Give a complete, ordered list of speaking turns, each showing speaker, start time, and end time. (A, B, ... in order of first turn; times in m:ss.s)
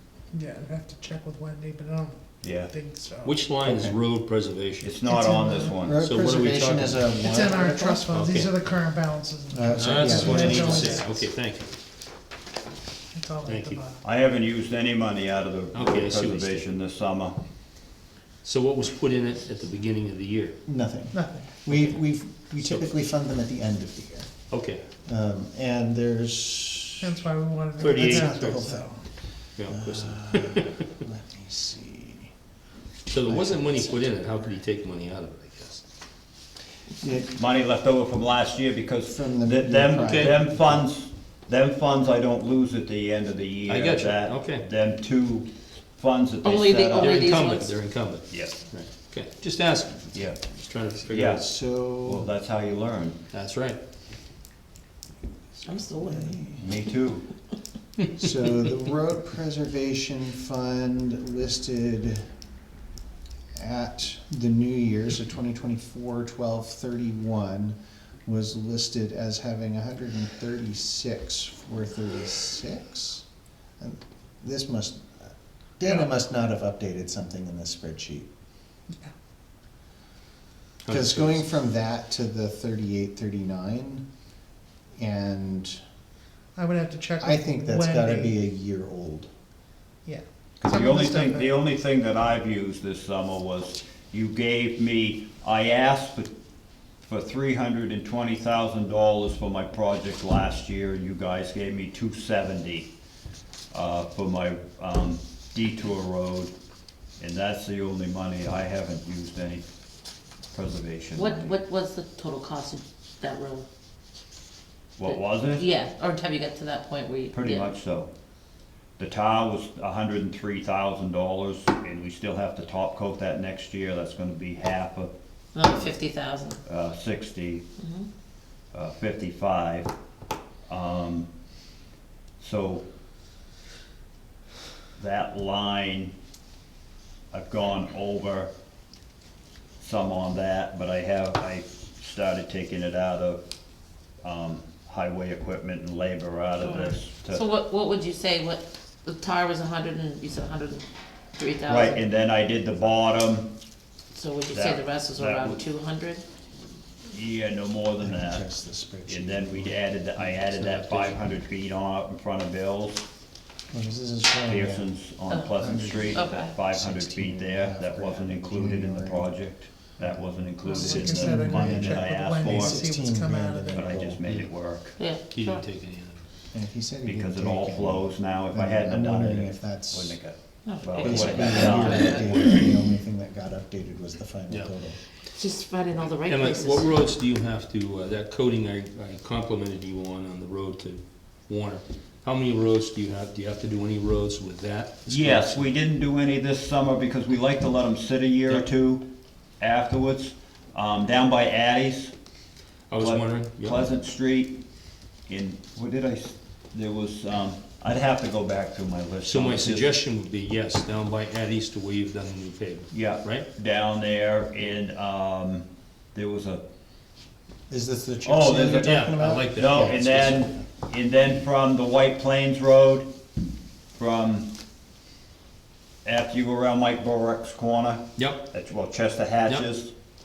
0:00.3-0:03.4 A
0:02.4-0:02.7 B
0:03.2-0:04.9 C
0:03.6-0:04.0 D
0:04.8-0:06.0 B
0:05.1-0:05.7 A
0:05.8-0:08.1 D
0:06.0-0:07.1 C
0:07.2-0:11.2 A
0:08.1-0:08.5 C
0:09.5-0:11.1 D
0:09.7-0:11.7 C
0:13.1-0:14.0 A
0:13.4-0:13.8 C
0:14.0-0:17.4 B
0:15.7-0:16.6 C
0:18.4-0:20.6 C
0:20.7-0:24.3 D
0:21.1-0:21.6 A
0:22.6-0:22.9 C
0:24.5-0:24.8 C
0:25.1-0:27.1 D
0:27.0-0:28.7 A
0:27.8-0:28.8 C
0:27.8-0:29.0 D
0:29.6-0:30.8 C
0:29.7-0:32.3 D
0:33.1-0:35.8 C
0:33.3-0:33.9 D
0:37.0-0:37.3 D
0:37.4-0:47.2 B
0:39.1-0:40.8 D
0:40.0-0:40.4 C
0:43.7-0:44.6 C
0:46.4-0:47.8 E
0:47.0-0:51.4 C
0:48.3-0:48.6 B
0:50.1-0:50.4 B
0:51.1-0:51.4 B
0:51.3-0:52.3 D
0:52.0-0:53.2 B
0:53.3-0:53.8 C
0:55.6-0:56.7 D
0:55.6-0:56.4 E
0:56.6-0:57.2 B
0:58.1-1:02.2 D
1:03.6-1:13.2 D
1:13.8-1:18.3 D
1:20.8-1:21.4 C
1:20.9-1:24.0 D
1:25.0-1:25.8 D
1:26.6-1:28.4 A
1:27.2-1:29.3 D
1:30.0-1:31.5 A
1:30.6-1:36.3 B
1:37.0-1:42.9 B
1:43.7-1:46.5 B
1:47.2-1:49.6 B
1:50.5-1:51.6 B
1:51.2-1:53.7 E
1:55.0-1:55.6 B
1:55.0-1:57.7 E
1:57.3-1:58.1 B
1:59.0-2:05.1 B
2:05.5-2:06.6 E
2:06.6-2:07.6 B
2:07.8-2:08.1 E
2:08.7-2:09.9 B
2:10.7-2:11.3 B
2:12.4-2:12.8 B
2:15.0-2:16.1 B
2:17.3-2:18.5 B
2:19.8-2:23.4 B
2:24.2-2:27.4 B
2:26.6-2:32.0 E
2:31.6-2:33.5 B
2:34.1-2:36.2 E
2:34.5-2:35.6 B
2:37.1-2:38.4 B
2:38.0-2:39.8 D
2:39.1-2:43.0 B
2:40.4-2:41.3 C
2:43.7-2:44.9 D
2:44.5-2:52.8 B
2:45.6-2:49.3 D
2:46.1-2:46.6 E
2:50.0-2:54.2 D
2:50.6-2:53.8 A
2:53.7-2:54.9 B
2:55.0-2:55.6 E
2:55.2-2:56.2 C
2:56.5-3:00.2 D
2:57.0-3:02.5 B
3:00.6-3:02.4 E
3:01.0-3:05.0 D
3:05.3-3:07.0 E
3:06.2-3:15.7 C
3:15.1-3:19.0 B
3:19.6-3:22.1 B
3:22.9-3:23.8 C
3:23.0-3:24.6 B
3:25.3-3:29.9 B
3:29.2-3:33.4 C
3:32.9-3:36.6 B
3:37.7-3:40.6 D
3:38.2-3:43.1 B
3:38.5-3:40.5 C
3:44.0-3:44.5 B
3:46.0-3:49.9 B
3:48.2-3:48.4 C